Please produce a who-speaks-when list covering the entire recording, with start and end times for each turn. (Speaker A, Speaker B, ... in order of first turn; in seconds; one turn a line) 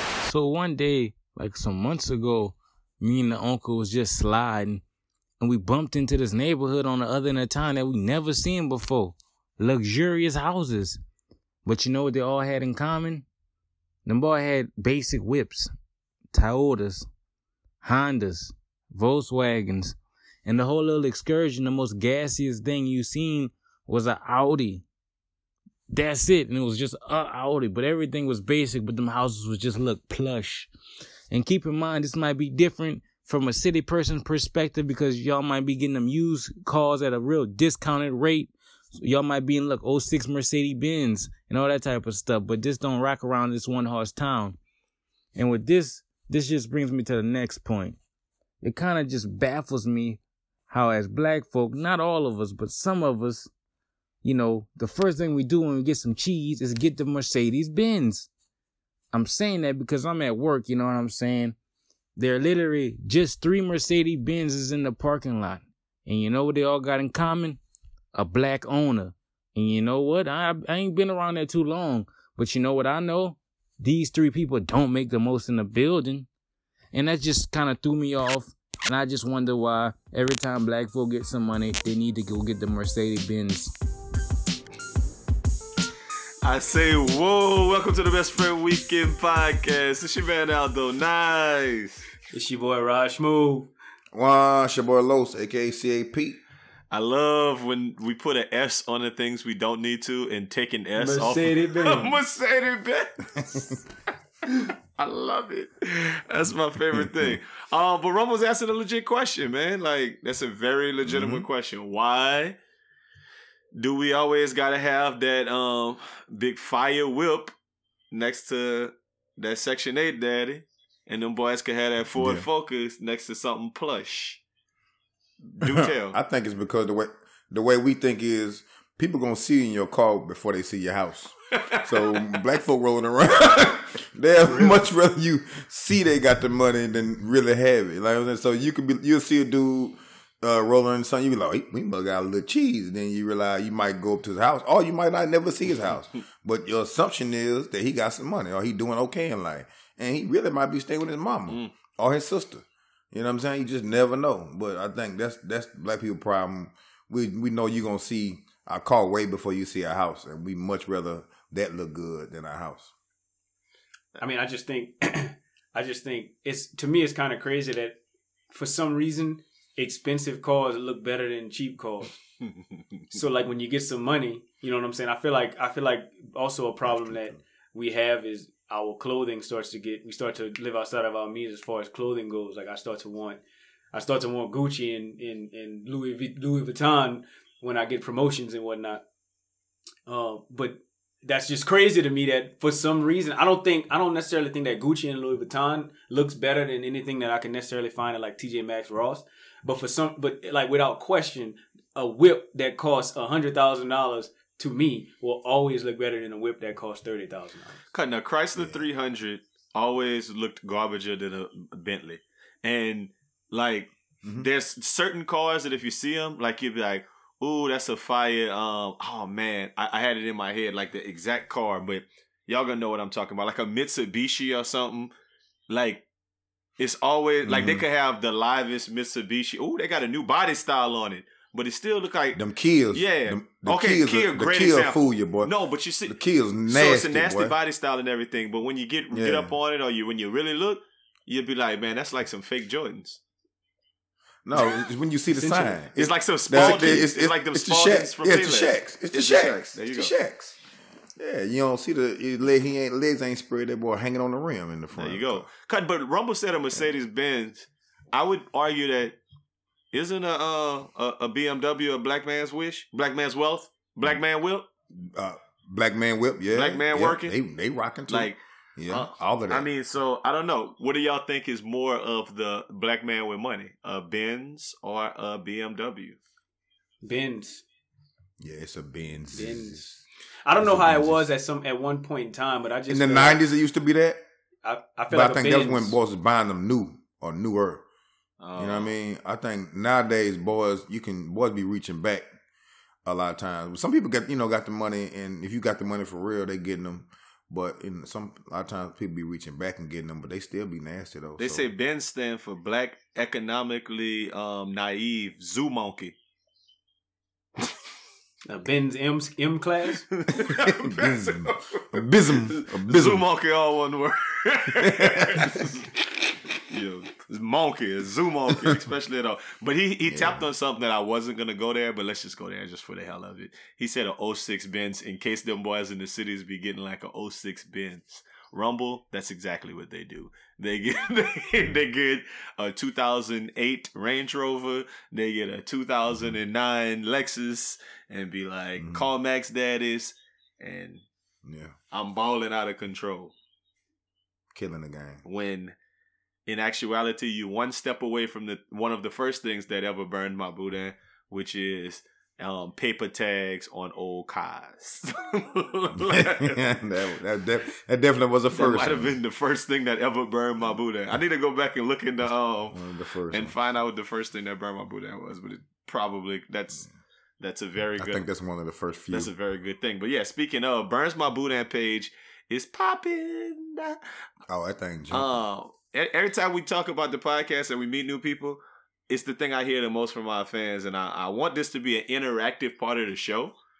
Speaker A: 0.2-4.8
Speaker A: 5.4-11.0
Speaker A: 11.6-13.2
Speaker A: 14.0-15.7
Speaker A: 16.3-17.1
Speaker A: 17.8-24.8
Speaker A: 25.9-30.7
Speaker A: 31.3-44.6
Speaker A: 45.3-48.0
Speaker A: 48.6-53.5
Speaker A: 54.2-58.3
Speaker A: 59.1-61.5
Speaker A: 62.1-67.6
Speaker A: 68.1-76.3
Speaker A: 76.9-83.7
Speaker B: 86.4-92.0
Speaker C: 92.3-93.7
Speaker D: 94.1-96.4
Speaker B: 96.9-103.8
Speaker C: 101.0-102.2
Speaker B: 104.5-112.5
Speaker D: 107.0-107.3
Speaker D: 111.0-111.5
Speaker B: 113.7-117.5
Speaker B: 118.1-124.4
Speaker D: 122.2-122.5
Speaker B: 125.5-126.2
Speaker D: 125.6-162.9
Speaker B: 131.6-132.4
Speaker C: 164.2-168.0
Speaker C: 168.5-172.1
Speaker C: 173.1-183.4
Speaker D: 176.9-177.3
Speaker C: 183.9-189.0
Speaker C: 190.1-207.8
Speaker B: 207.9-225.1
Speaker D: 208.5-208.8
Speaker B: 225.7-226.0
Speaker B: 226.8-232.4
Speaker D: 227.4-227.8
Speaker D: 232.3-235.5
Speaker B: 232.9-243.2
Speaker D: 236.1-237.6
Speaker D: 239.1-239.5
Speaker D: 244.4-250.6
Speaker C: 245.3-245.8
Speaker B: 245.9-250.1
Speaker C: 246.6-247.0
Speaker D: 251.2-255.4
Speaker B: 254.9-259.2
Speaker B: 259.9-264.7
Speaker D: 264.9-269.7
Speaker B: 266.5-267.4
Speaker B: 268.1-276.2
Speaker C: 277.0-277.6
Speaker D: 278.4-280.0
Speaker C: 279.3-279.8
Speaker C: 280.4-283.4
Speaker D: 280.6-281.2
Speaker D: 282.9-284.2
Speaker C: 284.6-286.0
Speaker D: 285.1-287.8
Speaker B: 288.4-288.9
Speaker D: 288.6-292.3
Speaker D: 293.0-301.7
Speaker B: 301.4-306.1
Speaker C: 308.4-310.0
Speaker B: 310.1-341.0
Speaker D: 310.4-313.2
Speaker D: 314.7-315.6
Speaker D: 320.1-320.4
Speaker D: 338.8-339.1
Speaker D: 341.4-341.7
Speaker B: 341.9-343.3
Speaker D: 344.5-345.2
Speaker B: 345.2-345.7
Speaker B: 346.5-356.8
Speaker D: 356.0-359.1
Speaker B: 358.5-366.9
Speaker D: 362.7-363.5
Speaker B: 367.4-368.2
Speaker D: 368.0-369.3
Speaker B: 369.1-374.0
Speaker D: 374.5-375.4
Speaker B: 375.1-383.5